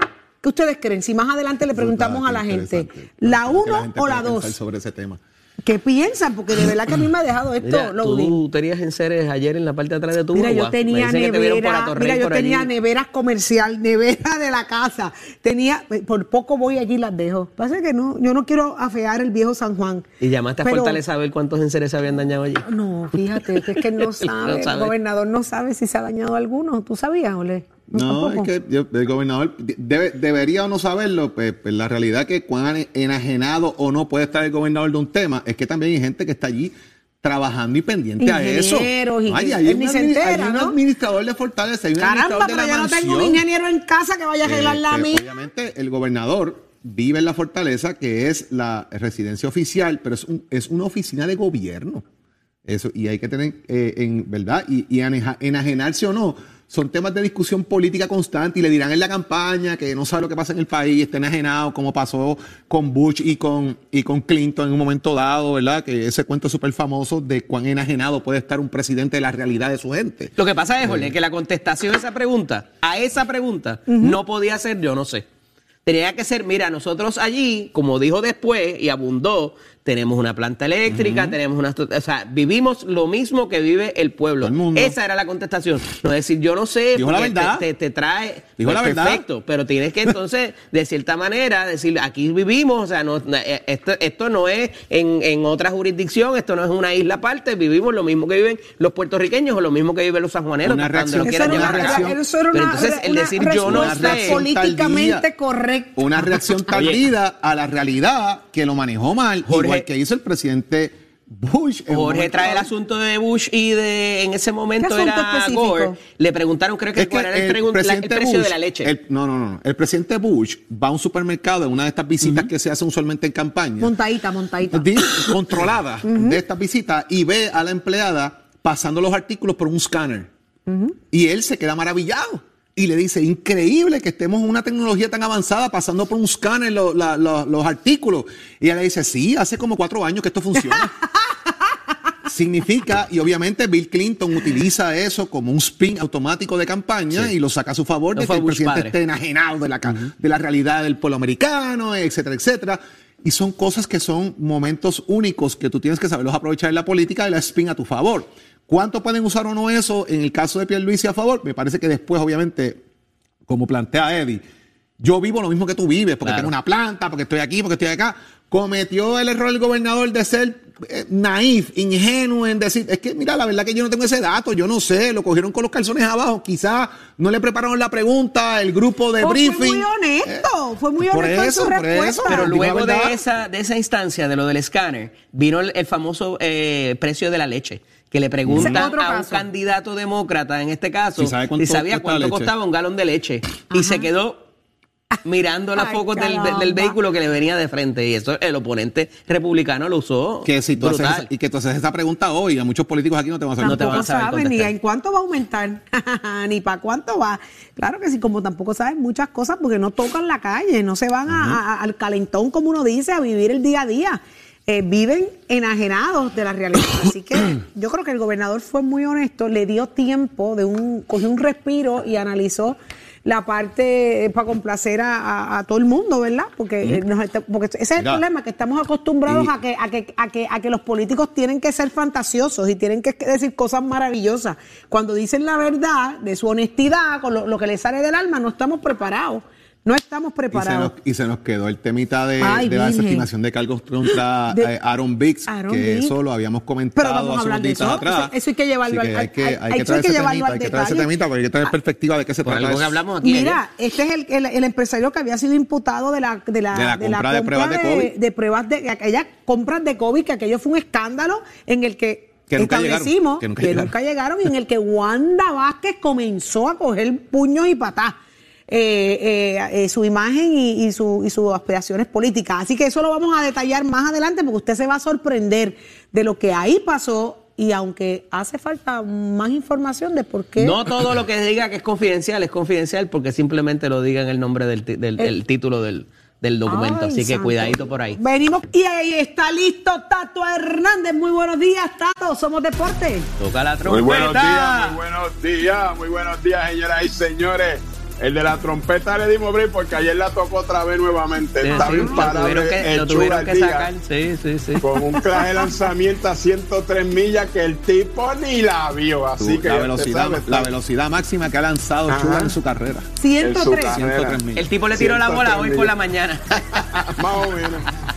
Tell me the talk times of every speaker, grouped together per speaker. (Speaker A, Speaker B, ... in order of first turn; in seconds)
Speaker A: 0.4-4.5, 5.6-8.4, 10.3-20.1, 20.6-21.0, 22.6-28.5, 38.2-40.8, 42.0-45.2, 73.9-74.2, 101.2-106.8, 114.8-116.0, 123.8-126.4, 130.7-131.0, 179.2-182.5, 188.5-189.4, 193.7-194.1, 195.8-197.0, 203.6-240.9, 242.4-243.2, 245.5-246.1, 246.9-251.1, 253.2-268.2, 268.7-280.9, 286.6-293.3, 301.7-302.3, 305.1-305.7, 313.2-314.0
Speaker B: 1.7-5.2, 27.9-43.4, 44.4-52.0, 52.6-71.1, 80.9-81.4, 84.4-85.0, 87.0-87.6, 88.6-89.2, 100.6-102.2, 103.6-105.2, 106.0-112.7, 117.0-123.9, 124.7-130.3, 131.1-140.9, 142.3-162.8, 163.5-164.4, 165.0-180.4, 181.0-183.2, 188.4-188.9, 191.2-192.5, 200.4-204.1, 211.3-211.6, 228.0-228.2, 229.2-229.5, 240.5-248.3, 248.8-253.0, 256.7-258.1, 262.5-263.9, 309.4-313.1, 313.9-315.9
Speaker C: 7.6-12.7, 20.2-22.7, 23.3-24.9, 70.4-75.2, 75.8-104.4, 106.7-107.0, 109.5-109.9, 111.9-118.9, 148.2-148.9, 166.2-166.5, 182.2-194.4, 195.2-201.3, 203.6-204.7, 252.4-253.6, 280.6-288.2, 293.4-295.0, 301.6-304.8, 314.6-316.8
Speaker D: 293.9-303.9, 304.8-310.7, 312.1-312.5, 313.4-314.4, 317.1-317.9